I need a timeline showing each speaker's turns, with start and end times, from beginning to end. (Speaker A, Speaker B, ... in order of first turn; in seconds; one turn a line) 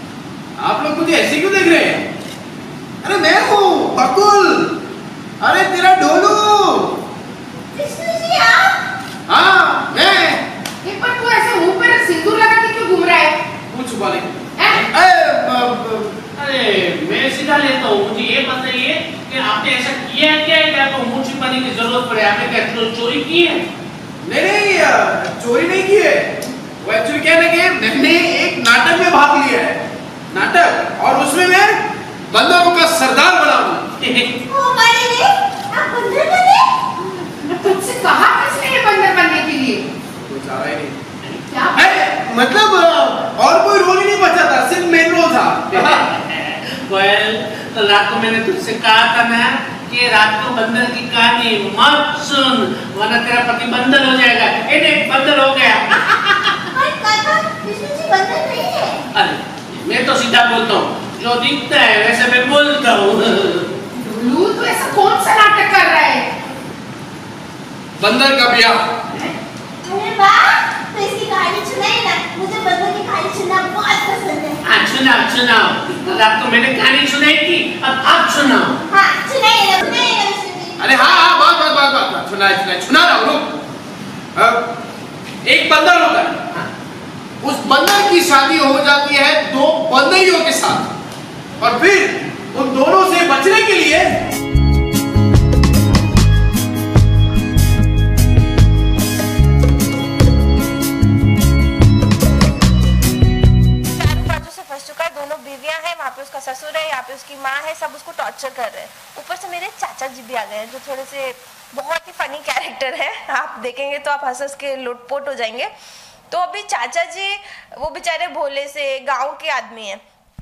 Speaker A: 0.6-2.0
Speaker A: 3.0-4.7
Speaker A: 5.4-7.0
Speaker B: 7.7-8.8
Speaker A: 9.3-10.4
Speaker C: 10.8-13.4
Speaker A: 13.7-16.1
Speaker C: 14.6-14.8
Speaker D: 16.4-23.7
Speaker A: 24.2-34.0
Speaker B: 34.5-36.7
Speaker C: 37.4-39.8
Speaker A: 40.2-41.0
Speaker C: 41.5-42.0
Speaker A: 41.8-46.0
Speaker D: 45.7-56.6
Speaker B: 56.7-59.1
Speaker D: 59.1-63.7
Speaker C: 64.0-66.3
Speaker A: 68.0-68.9
Speaker B: 69.8-74.6
Speaker D: 74.6-78.8
Speaker B: 78.9-80.8
Speaker A: 80.8-83.6
Speaker A: 84.3-84.7
Speaker A: 85.4-86.5
Speaker A: 87.4-90.9
Speaker A: 91.6-94.2
Speaker E: 103.9-115.7
Speaker E: 116.3-120.0